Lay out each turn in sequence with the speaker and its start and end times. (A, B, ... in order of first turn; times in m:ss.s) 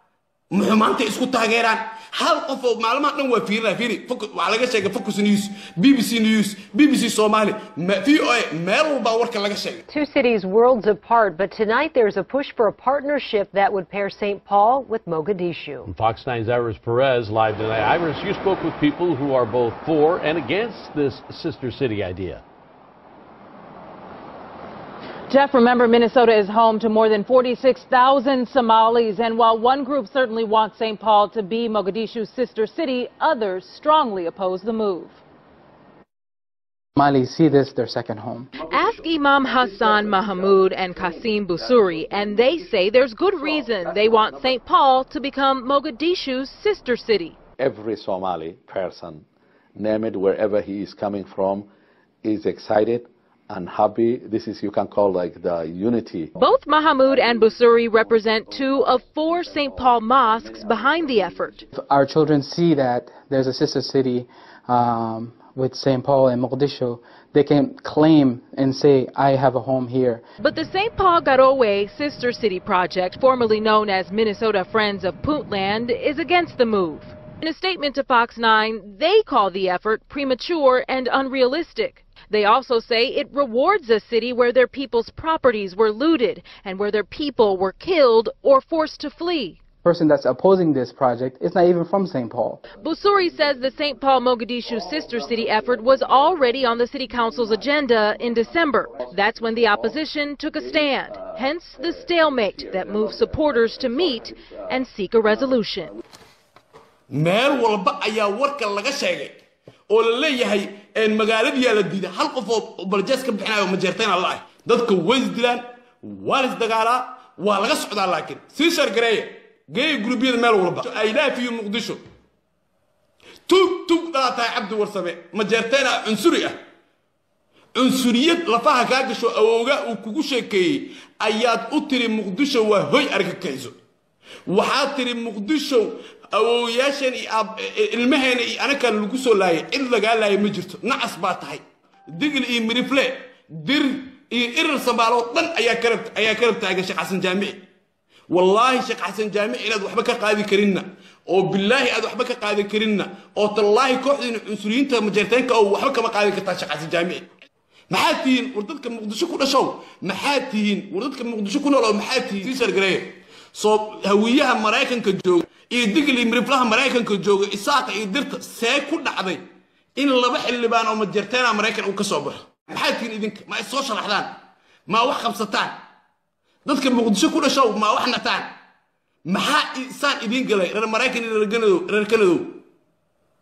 0:00.5-0:09.8 A
0:09.9-0:15.9 B
0:15.8-0:22.4 C
0:25.3-0:35.2 D
0:37.0-0:38.6 E
0:38.6-0:47.4 D
0:47.6-0:49.2 F
0:49.8-0:51.7 F
0:52.2-0:56.3 F
0:56.4-1:01.6 D
1:01.7-1:10.2 E
1:10.4-1:29.6 D
1:29.8-1:32.7 E
1:32.8-1:45.9 D
1:47.1-2:02.0 A
2:03.5-2:06.6 A
2:07.7-2:13.7 A
2:14.5-2:27.6 A
2:28.3-2:37.3 A
2:37.9-2:49.4 A
2:50.0-2:54.3 A
2:54.9-2:55.7 A
2:56.6-2:58.5 A
2:59.3-3:02.6 A